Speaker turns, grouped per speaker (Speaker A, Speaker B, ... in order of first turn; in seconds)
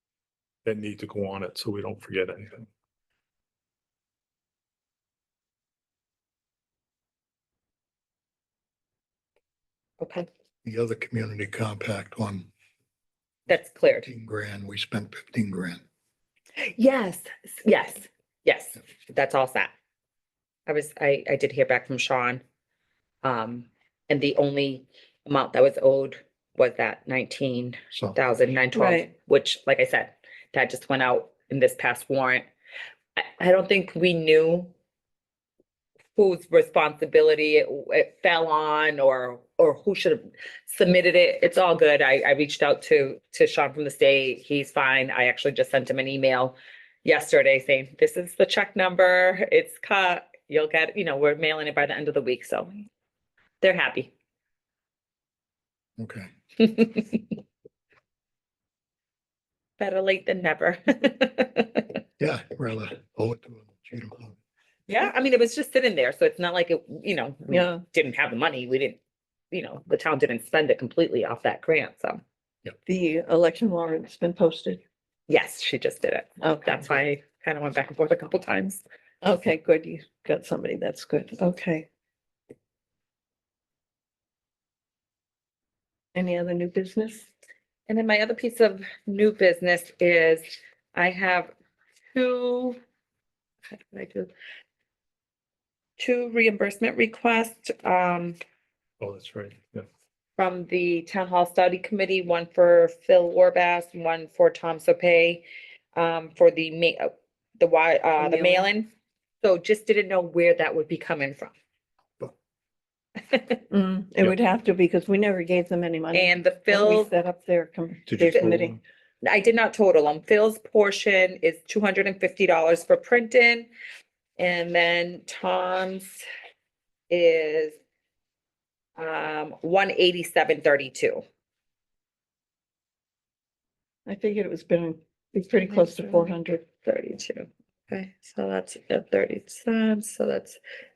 Speaker A: 0.7-2.7, 99.0-99.8, 118.1-118.8
Speaker B: 10.0-10.3, 13.5-14.1, 16.6-19.7, 20.7-22.4, 23.2-32.5, 33.2-34.7, 36.2-52.9, 53.6-54.1, 56.6-57.2, 59.8-62.0, 64.9-69.0, 69.5-72.2, 75.3-78.8, 87.9-91.5, 92.1-92.8, 93.7-94.3, 96.0-98.4, 100.4-105.4, 106.0-108.9, 109.4-111.5, 113.2-113.6, 116.1-117.1, 119.2-123.7, 124.4-126.2, 127.1-127.8, 129.0-131.2, 135.6-140.6
Speaker C: 10.6-12.5, 14.0-15.8, 56.0-56.3, 62.2-64.4
Speaker D: 28.7-29.1, 67.5-67.8, 72.9-74.8, 76.4-77.0, 79.2-81.9, 86.2-87.3, 108.2-108.7, 113.7-118.7, 134.1-136.6